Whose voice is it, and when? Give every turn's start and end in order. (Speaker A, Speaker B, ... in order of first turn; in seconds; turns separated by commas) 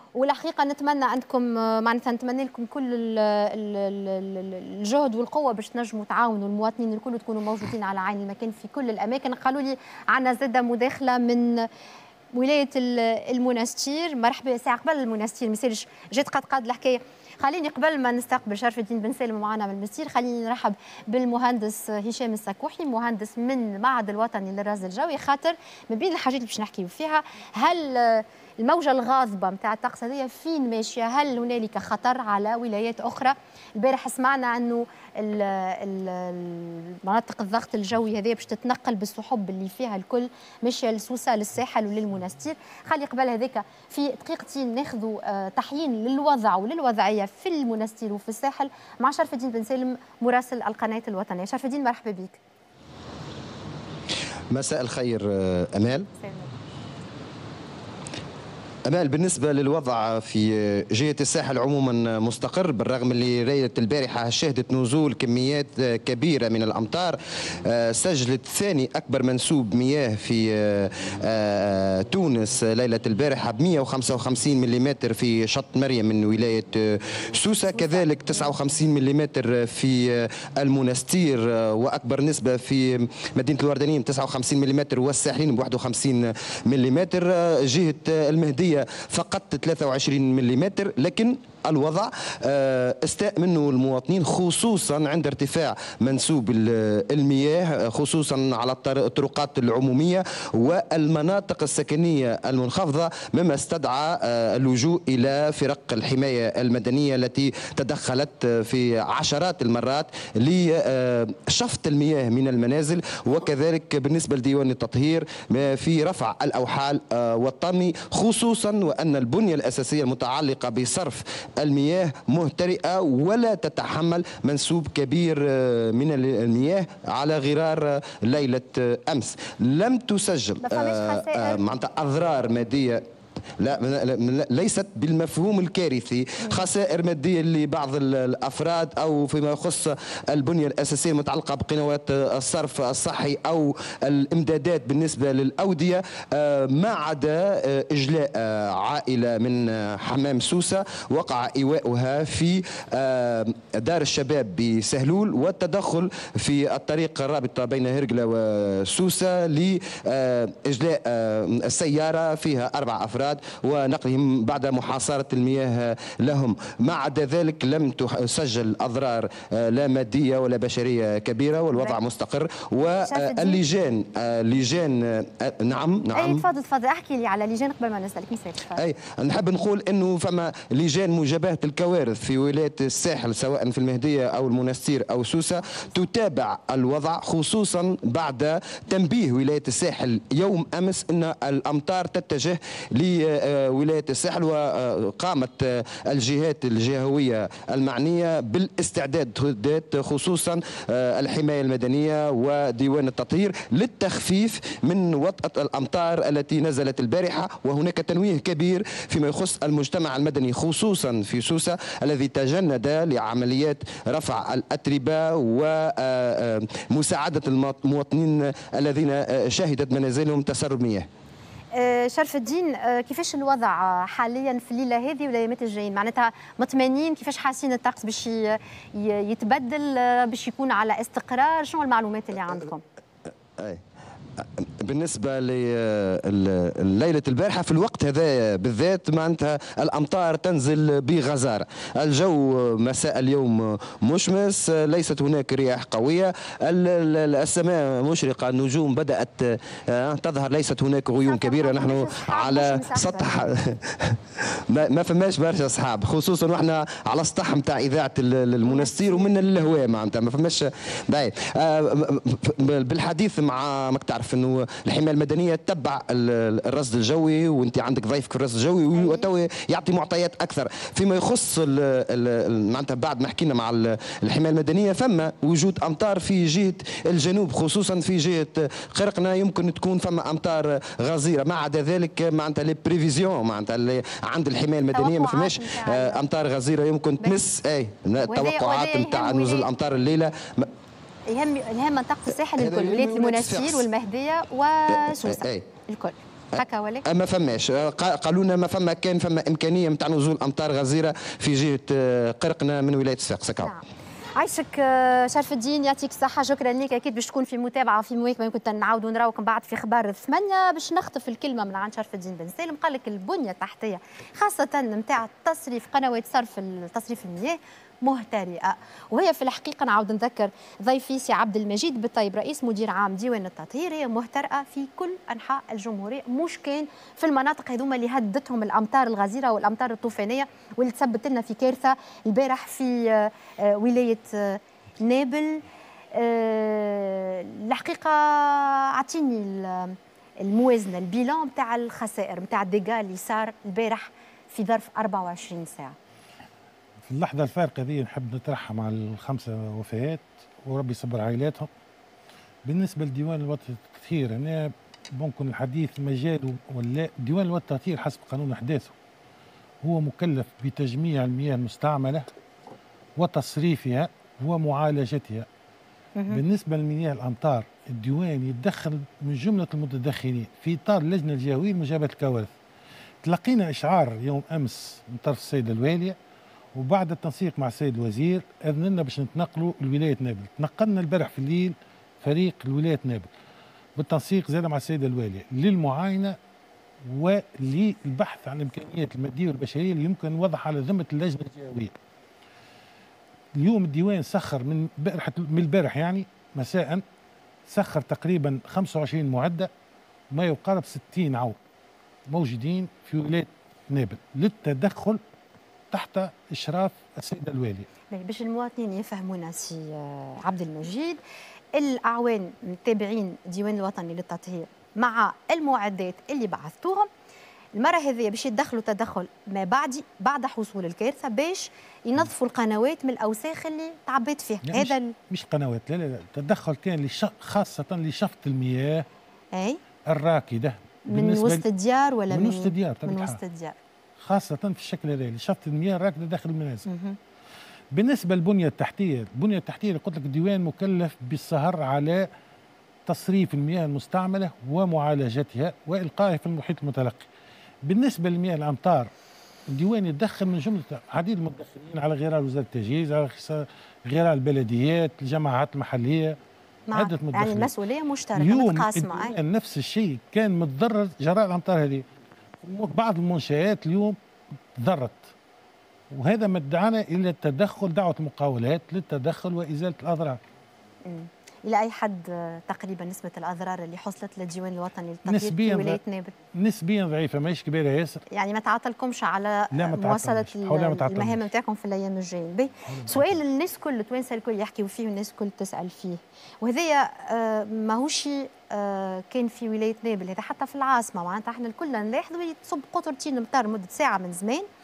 Speaker A: 0.1-11.7, Speaker A: 12.3-52.4, Speaker B: 54.5-56.1, Speaker A: 56.2-56.5, Speaker B: 58.9-133.0, Speaker A: 77.7-78.5, Speaker A: 130.6-131.6, Speaker B: 133.6-176.4, Speaker A: 173.0-173.6, Speaker A: 176.1-178.8, Speaker B: 178.8-221.1, Speaker A: 221.7-232.8, Speaker B: 233.6-233.8, Speaker B: 234.4-290.7, Speaker A: 251.2-253.4, Speaker A: 258.6-259.3, Speaker A: 268.9-269.3, Speaker A: 284.9-286.2, Speaker A: 288.3-289.7, Speaker A: 291.3-297.0, Speaker B: 292.6-293.9, Speaker B: 295.2-295.6, Speaker B: 297.0-303.7, Speaker A: 304.4-335.6, Speaker A: 336.1-345.9, Speaker C: 347.0-351.7, Speaker C: 352.6-358.9, Speaker C: 359.8-362.3, Speaker C: 363.2-365.5, Speaker A: 366.1-366.4, Speaker C: 366.3-372.5, Speaker C: 373.2-376.1, Speaker C: 376.7-383.3, Speaker C: 384.0-386.4, Speaker C: 387.1-391.9, Speaker C: 393.6-397.0, Speaker C: 397.7-399.7, Speaker C: 400.3-401.6, Speaker C: 402.3-405.2, Speaker C: 405.9-407.9, Speaker A: 408.1-411.2, Speaker A: 411.7-417.1, Speaker A: 417.8-425.1, Speaker C: 424.6-429.1, Speaker A: 429.5-429.8, Speaker C: 430.1-431.6, Speaker A: 431.1-433.8, Speaker C: 432.3-433.4, Speaker C: 434.2-436.9, Speaker A: 436.9-437.2, Speaker C: 437.9-442.3, Speaker C: 443.1-447.3, Speaker C: 447.8-449.1, Speaker C: 449.7-456.4, Speaker A: 456.9-459.3, Speaker C: 456.9-457.7, Speaker C: 458.4-462.1, Speaker C: 462.6-464.2, Speaker C: 464.8-465.2, Speaker C: 466.1-470.4, Speaker A: 471.1-476.3, Speaker C: 475.2-476.0, Speaker C: 476.5-478.2, Speaker A: 478.3-494.6, Speaker C: 479.7-481.4, Speaker C: 482.9-483.3